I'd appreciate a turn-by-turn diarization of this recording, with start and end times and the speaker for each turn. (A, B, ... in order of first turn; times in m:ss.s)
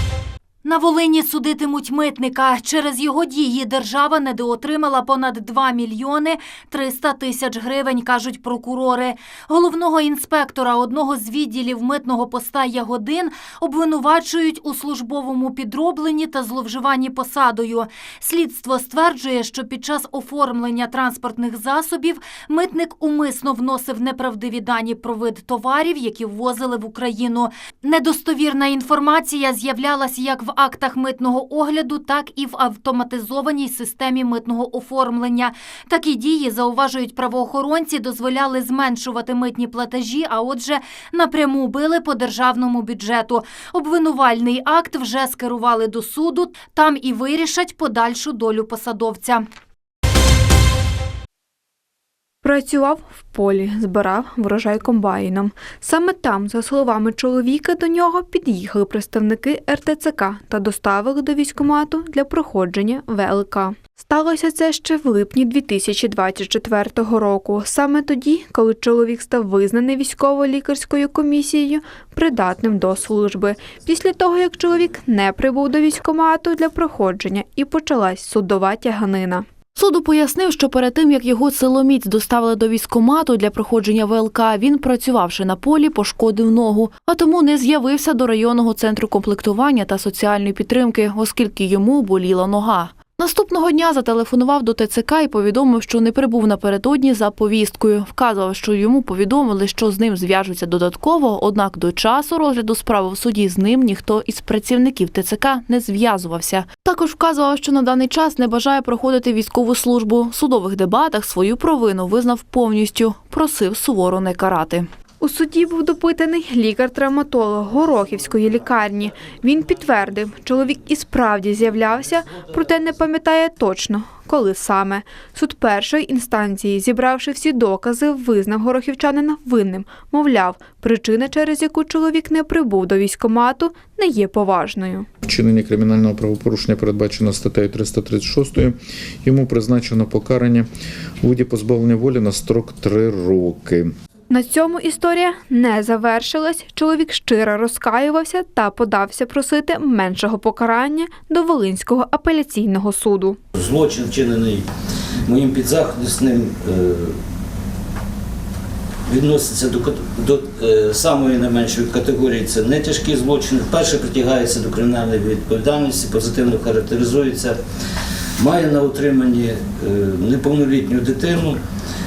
0:00.6-0:49.4 A
0:52.4-1:19.4 B
1:19.8-1:54.9 C
1:55.2-2:15.1 B
2:15.2-2:20.7 D
2:21.2-2:23.9 D
2:24.3-2:33.4 B
2:33.6-2:34.6 E
2:35.2-2:37.1 E
2:39.1-2:47.6 E
2:48.4-2:51.6 E